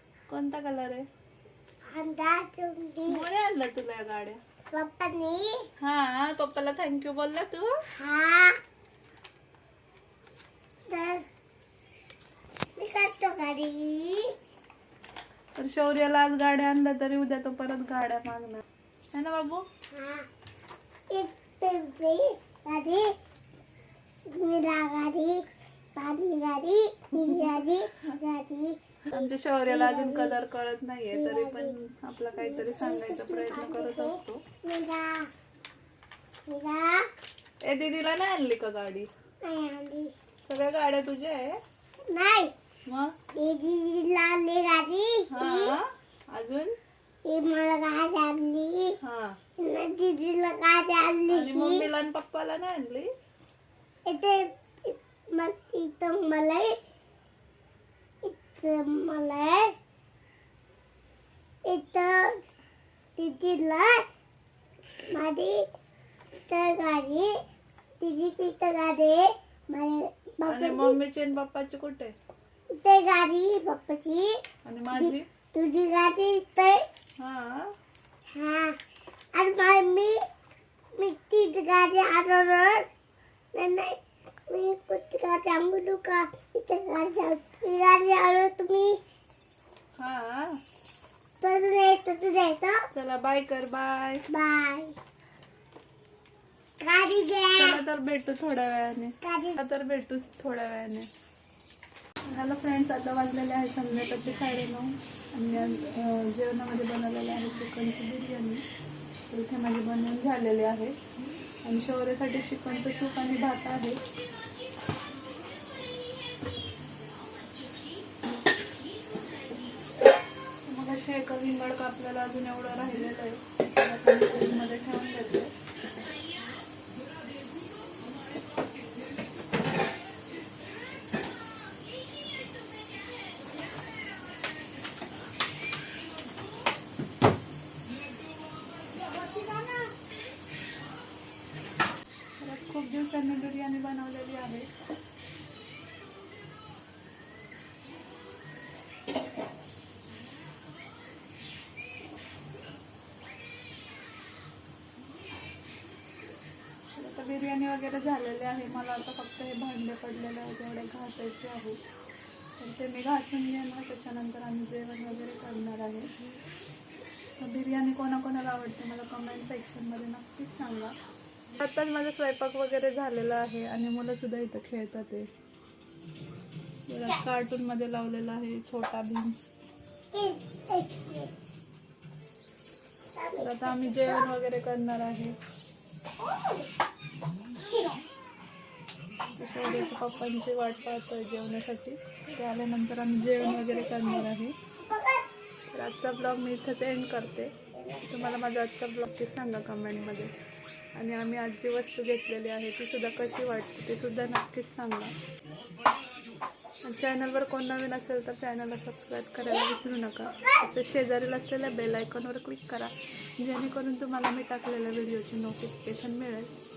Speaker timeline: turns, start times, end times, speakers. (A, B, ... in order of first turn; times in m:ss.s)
0:00.3-0:01.1 A
0:01.9-0:03.2 B
0:03.1-0:04.4 A
0:04.7-0:05.6 B
0:05.8-0:07.7 A
0:08.0-0:08.6 B
0:10.9-0:11.3 B
0:12.8-0:14.3 B
0:15.6-0:19.6 A
0:19.9-0:20.3 B
0:21.1-0:23.1 B
0:24.3-0:25.4 B
0:26.0-0:30.4 B
0:27.2-0:27.5 A
0:29.1-0:34.4 A
0:31.1-0:31.7 B
0:32.4-0:35.3 B
0:36.5-0:37.0 B
0:37.6-0:39.1 A
0:39.4-0:40.1 B
0:40.5-0:41.6 A
0:42.1-0:42.5 B
0:42.9-0:43.2 A
0:43.4-0:45.8 B
0:45.3-0:46.8 A
0:47.2-0:49.0 B
0:49.0-0:49.4 A
0:49.6-0:51.8 B
0:51.3-0:53.1 A
0:54.1-0:56.8 B
0:58.2-0:59.7 B
1:01.7-1:02.4 B
1:03.2-1:04.0 B
1:05.1-1:05.6 B
1:06.3-1:07.3 B
1:08.0-1:11.0 B
1:10.5-1:12.1 A
1:12.7-1:14.4 B
1:14.6-1:15.2 A
1:15.0-1:16.8 B
1:17.2-1:17.7 A
1:18.3-1:18.8 B
1:19.3-1:20.2 B
1:21.0-1:22.9 B
1:23.5-1:24.0 B
1:24.5-1:29.0 B
1:30.0-1:30.6 A
1:31.4-1:32.8 B
1:32.9-1:34.2 A
1:34.3-1:35.0 B
1:36.8-1:37.8 B
1:37.6-1:41.1 A
1:39.2-1:39.6 B
1:42.3-1:48.6 A
1:49.3-1:51.0 A
1:51.6-1:54.0 A
2:00.7-2:05.5 A
2:19.0-2:19.9 B
2:22.4-2:24.7 A
2:37.0-2:41.8 A
2:42.6-2:46.1 A
2:47.4-2:50.9 A
2:51.6-2:55.3 A
2:56.9-2:59.4 A
3:00.1-3:01.3 B
3:03.2-3:04.3 B
3:03.4-3:05.4 A
3:06.2-3:06.6 B
3:07.6-3:08.0 B
3:09.4-3:14.6 A
3:13.4-3:14.3 B
3:14.8-3:15.3 B
3:15.7-3:17.5 A
3:17.8-3:18.3 B
3:18.1-3:20.3 A
3:21.0-3:25.1 A
3:26.8-3:36.5 A
3:30.4-3:30.6 B